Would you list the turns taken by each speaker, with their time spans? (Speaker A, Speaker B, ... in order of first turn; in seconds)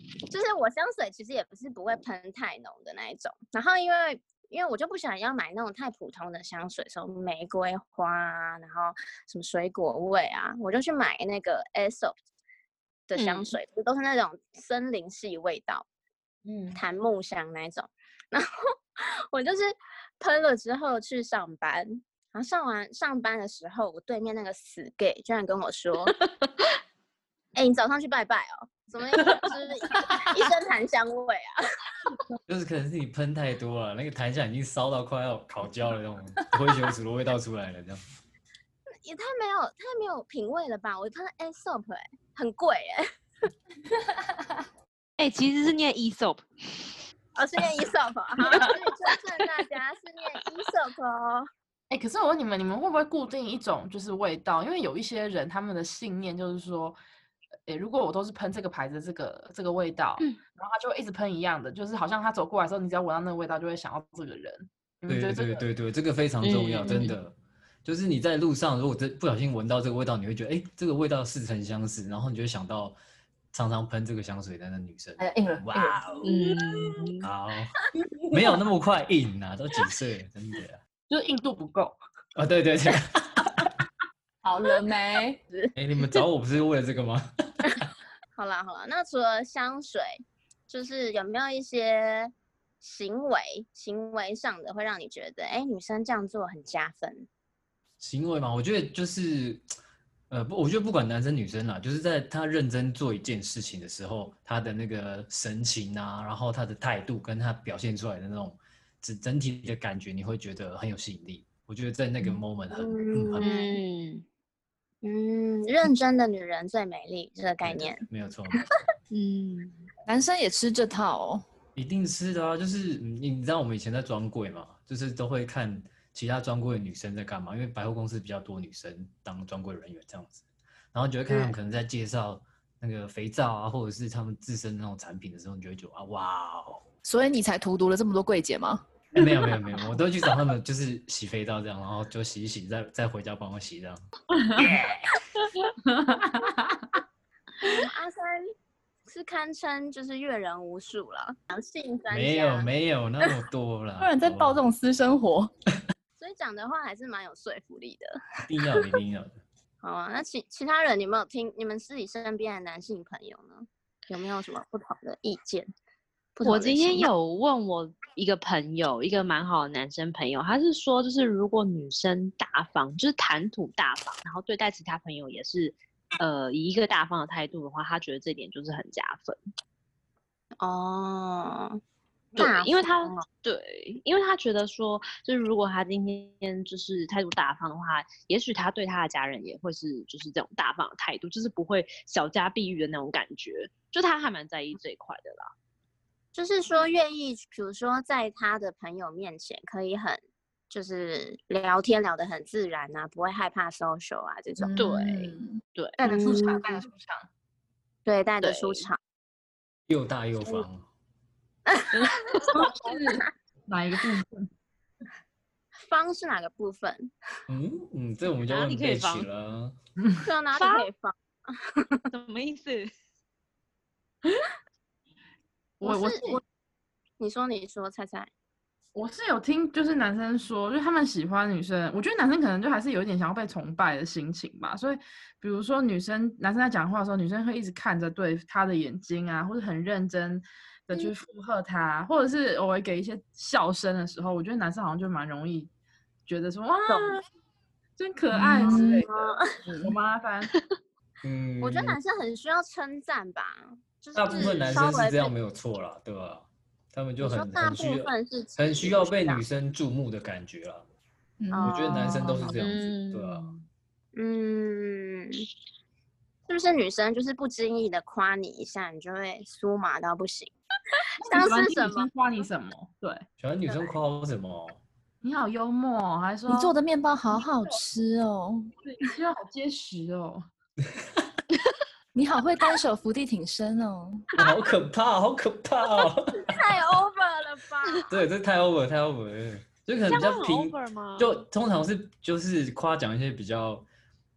Speaker A: 0.3-12.1, 13.1-15.8, 16.7-26.1, 27.5-31.5, 39.0-43.1, 47.4-51.5, 88.3-97.3, 112.7-113.8, 115.0-118.0, 147.6-148.5, 149.1-152.7, 156.2-158.2, 159.8-165.7, 166.3-167.1, 180.6-181.8, 182.3-183.2, 196.3-204.7, 206.0-206.8, 208.1-209.0, 211.7-213.2, 215.8-217.1, 220.2-221.8, 225.8-226.4, 227.2-228.3, 246.9-247.2, 248.6-249.4, 251.6-255.3, 257.2-259.4, 261.5-262.1, 264.1-265.4, 266.5-270.5, 271.2-272.5, 273.7-273.9, 286.3-288.2
Speaker B: 13.2-13.5, 16.4-16.8, 45.2-46.9, 66.4-67.1, 76.2-77.2, 113.4-114.2, 119.1-119.8, 166.4-179.4, 182.3-195.5, 204.8-205.9, 208.4-208.8, 211.9-212.3, 218.4-219.3, 220.6-220.9, 222.1-222.9, 262.5-263.6, 290.1-291.4
Speaker C: 32.5-38.0, 65.1-73.0, 73.5-76.2, 77.2-77.7, 78.3-80.8, 82.3-83.6, 85.7-87.9, 98.0-99.7, 100.3-113.5, 117.6-118.8, 121.7-130.4, 130.9-136.8, 139.1-144.0, 144.5-145.2, 152.1-154.6, 158.4-159.4, 209.9-210.8, 217.5-219.8, 251.2-252.0, 254.2-260.8, 261.6-263.5, 273.4-274.8, 280.8-281.2, 284.4-286.6, 288.1-293.8
Speaker D: 51.9-57.0, 57.7-65.6, 81.1-82.0, 144.3-144.7, 145.6-147.0, 206.0-207.2, 212.4-214.5, 220.0-220.2, 225.8-226.4, 228.9-245.7, 246.2-247.2, 248.0-250.5, 271.2-273.2, 275.2-276.7, 278.8-280.4
Speaker E: 75.2-76.2, 84.4-85.4, 120.0-121.4, 137.0-138.8, 154.0-155.5, 204.6-205.6, 248.3-249.1, 249.7-249.9, 261.4-262.6, 276.5-278.7, 282.1-284.3